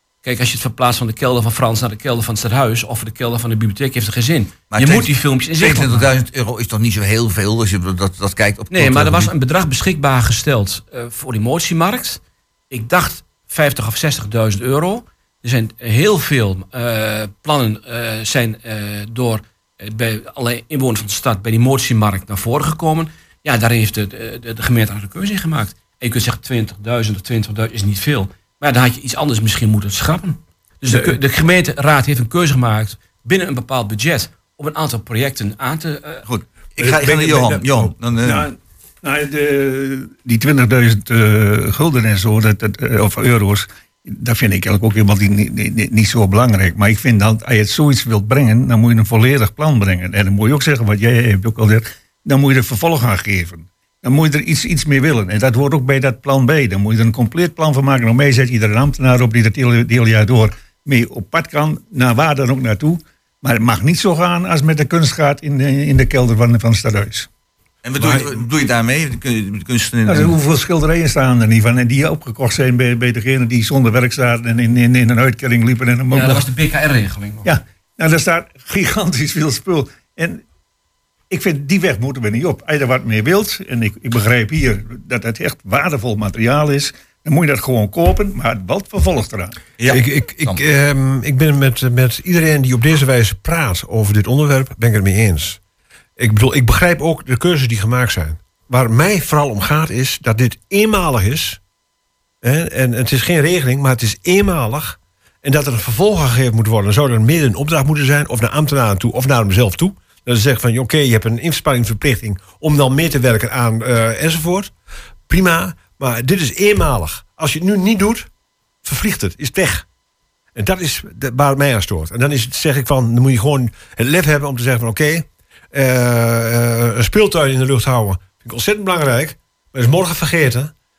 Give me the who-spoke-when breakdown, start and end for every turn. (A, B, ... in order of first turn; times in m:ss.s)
0:00.2-0:06.1 A
0:04.7-0:09.3 B
0:08.7-0:36.2 A
0:36.3-0:38.4 B
0:36.8-0:37.9 C
0:38.2-1:07.3 D
1:07.8-1:10.3 B
1:10.0-1:16.4 D
1:16.1-1:17.5 A
1:17.4-1:20.4 D
1:21.3-1:29.6 D
1:29.8-1:30.6 B
1:29.9-1:35.6 C
1:36.2-1:41.6 C
1:42.4-1:54.7 C
1:55.3-1:58.3 C
1:58.8-1:59.8 C
2:00.5-2:10.7 C